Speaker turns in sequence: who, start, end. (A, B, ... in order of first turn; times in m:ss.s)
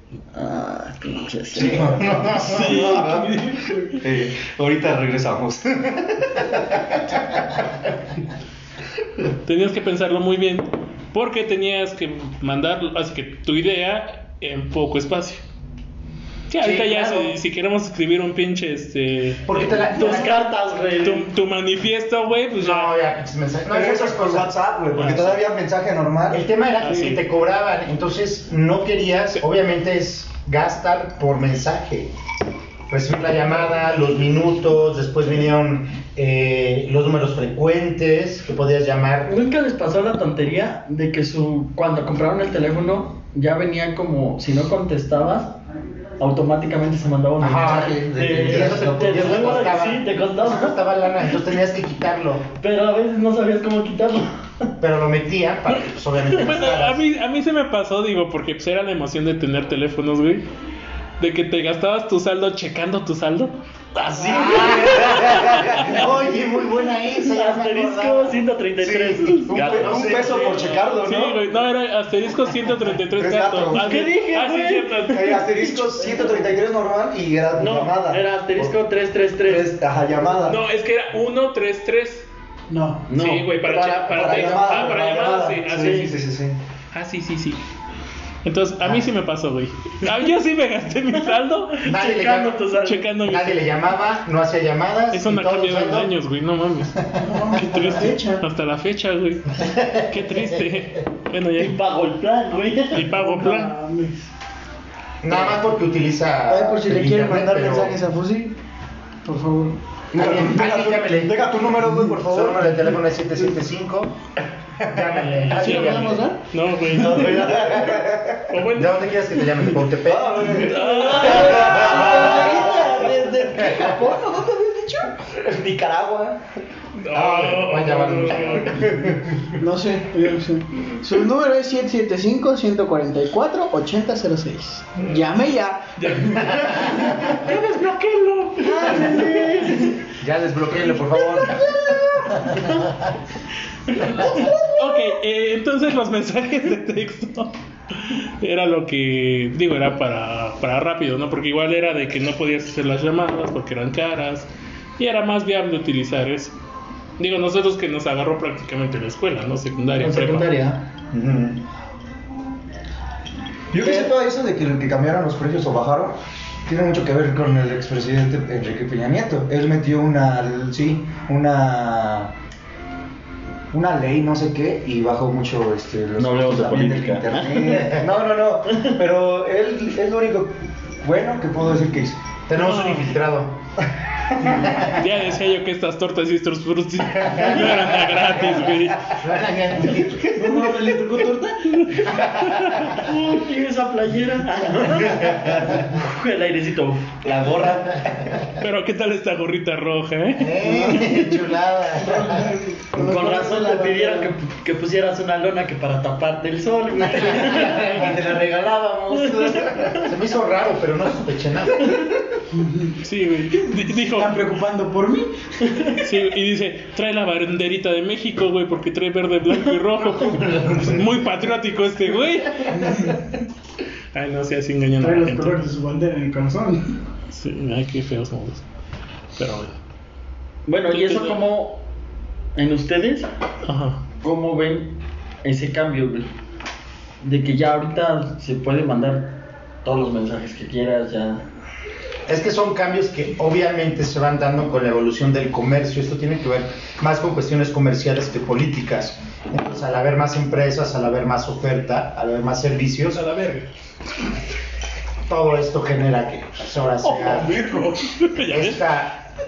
0:00.3-0:02.2 A
0:01.6-0:07.2 B
0:01.9-0:02.8 C
0:02.3-0:04.0 D
0:09.4-0:15.4 D
0:16.5-0:20.3 D
0:16.6-0:17.3 C
0:19.4-0:20.4 C
0:19.9-0:21.3 A
0:21.0-0:22.9 D
0:22.6-0:24.5 C
0:23.7-0:26.4 B
0:25.0-0:25.3 D
0:26.3-0:32.1 C
0:26.8-0:27.2 D
0:32.9-0:39.3 C
0:39.2-0:45.6 A
0:46.2-0:50.8 A
0:47.4-0:52.5 C
0:47.6-0:49.7 B
0:52.6-0:54.7 A
0:54.8-0:57.0 C
0:55.7-1:00.4 D
1:01.2-1:03.5 D
1:04.0-1:06.1 B
1:04.2-1:08.4 C
1:04.4-1:06.0 D
1:07.2-1:10.7 A
1:08.8-1:11.4 B
1:08.9-1:10.4 C
1:11.0-1:15.4 D
1:13.1-1:13.9 B
1:13.7-1:16.5 A
1:15.1-1:18.7 B
1:17.6-1:19.7 A
1:19.4-1:20.6 B
1:20.4-1:22.3 D
1:22.7-1:23.0 E
1:23.1-1:24.8 A
1:23.1-1:26.1 D
1:24.0-1:26.6 B
1:25.7-1:26.1 A
1:26.9-1:27.6 D
1:28.4-1:31.8 D
1:28.8-1:29.0 C
1:31.8-1:33.2 A
1:31.8-1:32.6 C
1:32.8-1:33.6 D
1:33.2-1:36.1 C
1:35.1-1:37.0 D
1:37.0-1:37.4 C
1:37.2-1:38.4 E
1:37.5-1:41.7 D
1:39.6-1:40.6 C
1:41.6-1:43.0 A
1:42.9-1:43.7 D
1:43.0-1:44.3 E
1:45.2-1:48.0 C
1:46.5-1:48.5 E
1:49.2-1:49.8 E
1:50.1-1:52.8 B
1:50.1-1:54.1 C
1:54.9-1:56.3 C
1:55.4-1:57.7 D
1:55.5-1:56.4 E
1:56.9-1:58.5 B
1:56.9-1:57.3 E
1:58.5-1:59.0 D
1:58.6-2:00.7 C
2:00.0-2:02.9 B
2:00.5-2:02.2 D
2:00.8-2:03.1 A
2:00.8-2:05.3 E
2:01.9-2:02.5 C
2:03.6-2:04.0 C
2:05.3-2:06.4 B
2:07.0-2:08.9 D
2:07.1-2:07.7 B
2:07.3-2:09.3 C
2:09.6-2:17.3 E
2:15.0-2:15.3 D
2:16.0-2:19.0 D
2:16.6-2:17.0 C
2:18.6-2:20.0 A
2:18.6-2:19.9 E
2:20.2-2:23.1 C
2:21.6-2:22.9 A
2:23.9-2:24.5 A
2:24.0-2:36.5 D
2:37.2-2:40.5 D
2:40.0-2:40.8 A
2:41.1-2:41.5 B
2:43.7-2:52.3 B
2:43.8-2:44.1 A
2:53.7-3:02.2 B
2:56.2-2:57.9 A
2:57.8-2:58.4 C
2:58.7-2:59.0 A
3:02.5-3:03.6 C
3:02.6-3:03.1 D
3:04.4-3:05.0 C
3:04.8-3:09.1 D
3:07.3-3:07.8 A
3:09.0-3:10.6 C
3:10.2-3:11.8 B
3:10.4-3:11.2 E
3:11.8-3:13.0 D
3:12.1-3:13.0 C
3:12.9-3:17.2 A
3:17.2-3:18.1 B
3:18.6-3:21.0 D
3:20.4-3:22.5 C
3:20.8-3:21.1 E
3:22.0-3:24.3 E
3:22.9-3:28.1 A
3:27.1-3:32.1 C
3:28.0-3:28.4 B
3:29.1-3:30.0 A
3:32.5-3:32.9 E
3:33.0-3:34.5 D
3:33.9-3:35.3 E
3:35.6-3:36.0 A
3:36.0-3:43.1 D
3:40.3-3:41.0 B
3:42.8-3:43.1 E
3:44.1-3:45.7 D
3:45.0-3:46.9 E
3:47.3-3:48.6 D
3:49.4-3:49.7 D
3:50.6-3:51.8 A
3:50.9-3:51.5 D
3:52.5-3:53.3 A
3:53.6-3:54.0 D
3:54.2-3:56.3 A
3:57.2-4:01.4 A
4:02.3-4:13.2 C
4:13.1-4:13.7 D
4:15.3-4:17.6 C
4:17.0-4:18.8 D
4:18.4-4:19.3 C